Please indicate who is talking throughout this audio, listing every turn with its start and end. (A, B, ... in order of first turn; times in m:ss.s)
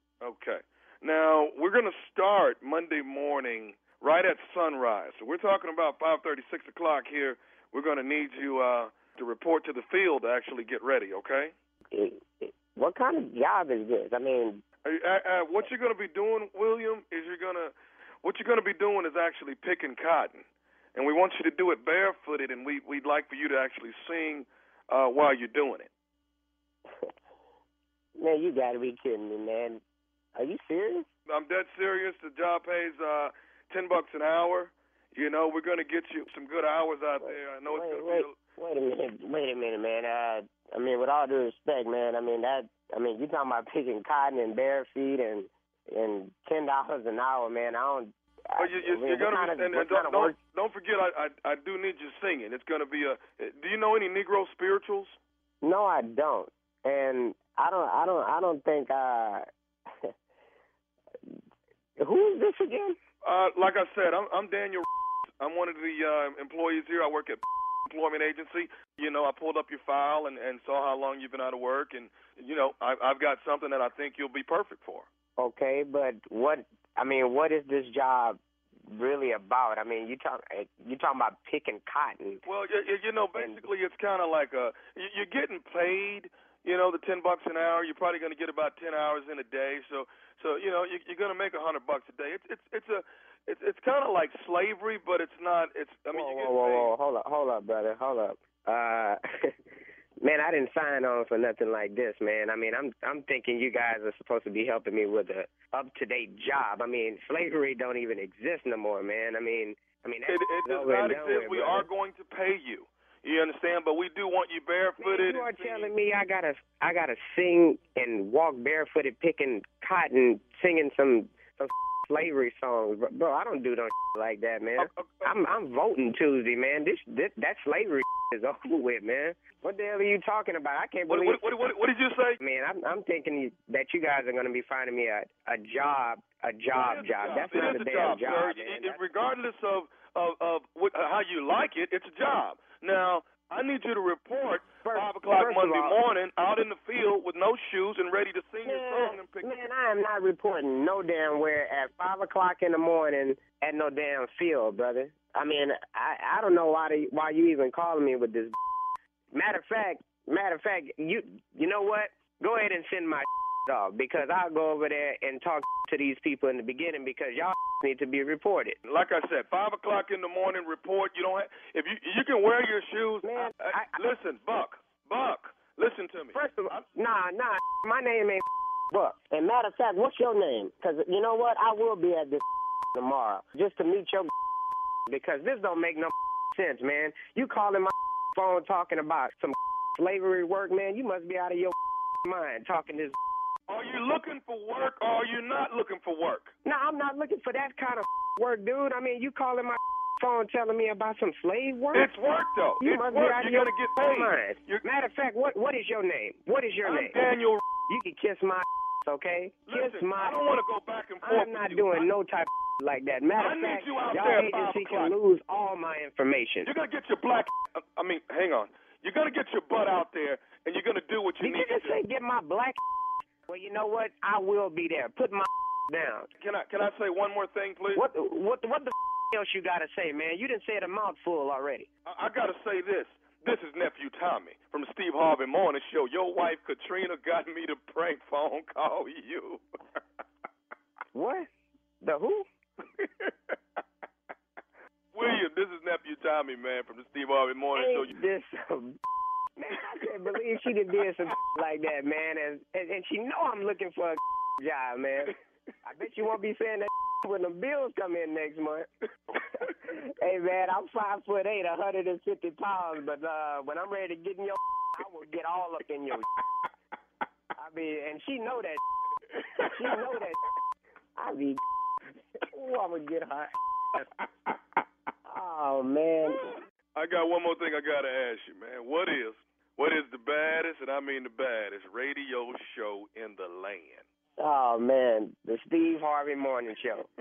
0:00.2-0:11.5 A
0:11.9-0:14.6 B
0:14.8-0:25.9 A
0:28.2-0:29.8 B
0:30.4-0:31.1 B
0:31.3-0:38.4 A
0:37.2-0:50.4 B
0:48.6-0:55.2 A
0:55.6-0:59.5 B
1:02.0-1:03.0 B
1:03.2-1:04.9 A
1:05.4-1:15.1 A
1:15.4-1:22.4 B
1:22.4-1:36.9 A
1:23.4-1:23.6 B
1:36.1-1:39.2 B
1:40.2-1:51.9 B
1:50.3-1:55.9 A
1:55.0-2:11.4 B
2:04.8-2:05.4 A
2:11.1-2:12.4 A
2:12.4-2:19.0 B
2:16.7-2:29.7 A
2:24.8-2:26.0 B
2:28.6-2:38.6 B
2:39.3-2:48.8 B
2:48.8-2:56.4 A
2:53.2-2:54.0 B
2:56.3-3:04.3 B
3:05.1-3:13.2 B
3:13.7-3:16.5 A
3:16.6-3:22.1 B
3:21.9-3:24.8 A
3:22.8-3:27.2 B
3:26.8-3:27.6 A
3:27.9-3:30.4 B
3:29.7-3:32.1 A
3:31.2-3:36.7 B
3:33.4-3:35.2 A
3:36.6-3:42.0 A
3:41.4-3:42.8 B
3:43.5-3:46.3 B
3:46.4-3:48.0 A
3:47.9-3:51.9 B
3:52.0-3:59.6 A
4:01.1-4:01.5 B
4:02.0-4:02.4 B
4:03.0-4:03.6 A
4:05.1-4:08.1 A
4:07.8-4:09.0 B
4:09.6-4:15.3 B
4:15.8-4:18.9 B
4:19.4-4:26.2 B
4:27.6-4:28.8 B
4:29.6-4:30.4 B
4:31.2-4:31.6 B
4:32.4-4:34.0 B
4:35.3-4:36.4 B
4:36.3-4:44.0 A
4:44.4-4:47.1 B